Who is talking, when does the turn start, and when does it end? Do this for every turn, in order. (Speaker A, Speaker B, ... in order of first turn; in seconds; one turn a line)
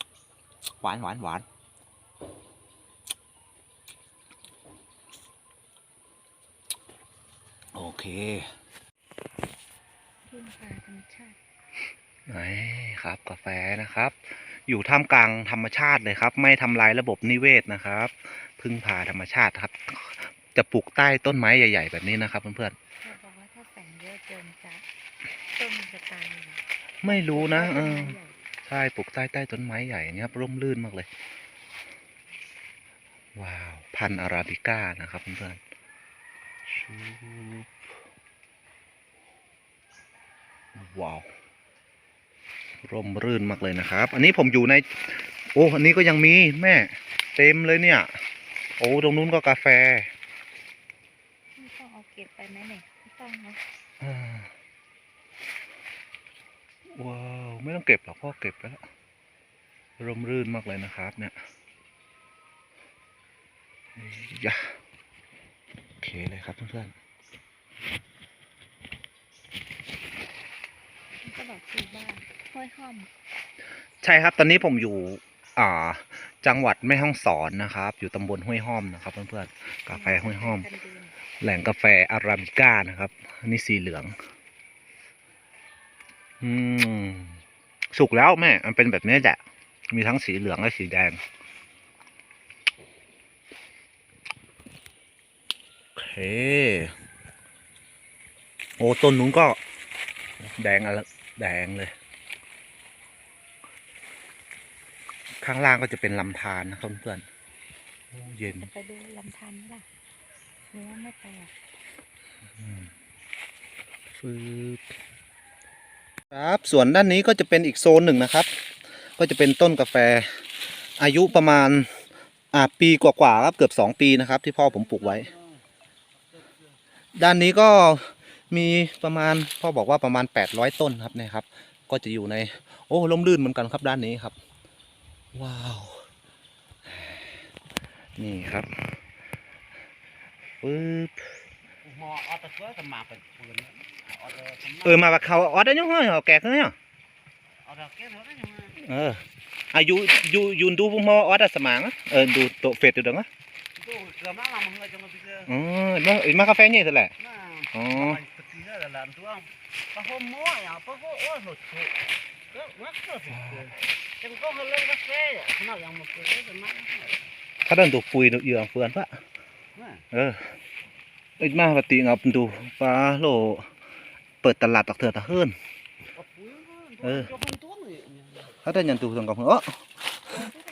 Speaker A: 0.8-1.5
Speaker A: 7.7-8.5
Speaker B: 10.2-11.4
Speaker A: 12.3-22.8
Speaker B: 23.0-24.9
Speaker B: 25.5-28.4
Speaker A: 27.0-31.1
Speaker A: 33.4-35.6
Speaker A: 36.7-37.8
Speaker A: 40.8-41.3
Speaker A: 42.8-48.1
Speaker A: 48.8-50.1
Speaker B: 51.6-53.6
Speaker A: 54.0-54.5
Speaker A: 57.0-58.8
Speaker A: 60.0-61.4
Speaker A: 64.0-64.8
Speaker A: 66.0-66.9
Speaker B: 71.2-73.1
Speaker A: 74.0-80.7
Speaker B: 79.9-81.1
Speaker A: 81.4-84.1
Speaker A: 86.4-87.4
Speaker A: 87.9-89.4
Speaker A: 89.9-91.2
Speaker A: 96.0-96.9
Speaker A: 98.8-99.6
Speaker A: 100.4-101.9
Speaker A: 105.4-107.2
Speaker A: 108.1-108.7
Speaker B: 108.6-109.9
Speaker B: 110.7-111.5
Speaker A: 114.2-114.8
Speaker A: 116.3-118.5
Speaker A: 119.2-120.3
Speaker A: 121.0-121.9
Speaker A: 122.5-125.3
Speaker A: 127.1-134.4
Speaker A: 135.3-136.1
Speaker A: 136.9-137.2
Speaker A: 138.2-138.9
Speaker A: 140.6-141.3
Speaker C: 141.8-144.7
Speaker A: 144.7-146.8
Speaker C: 147.7-148.7
Speaker A: 148.8-153.3
Speaker C: 153.8-155.4
Speaker A: 155.4-157.1
Speaker A: 157.7-158.2
Speaker C: 158.2-161.9
Speaker C: 162.5-163.4
Speaker A: 163.2-163.7
Speaker C: 164.2-167.2
Speaker A: 167.6-169.1
Speaker A: 170.1-170.5
Speaker A: 171.4-173.7
Speaker A: 174.4-175.5
Speaker C: 176.2-178.4
Speaker A: 177.0-177.4
Speaker A: 178.6-179.8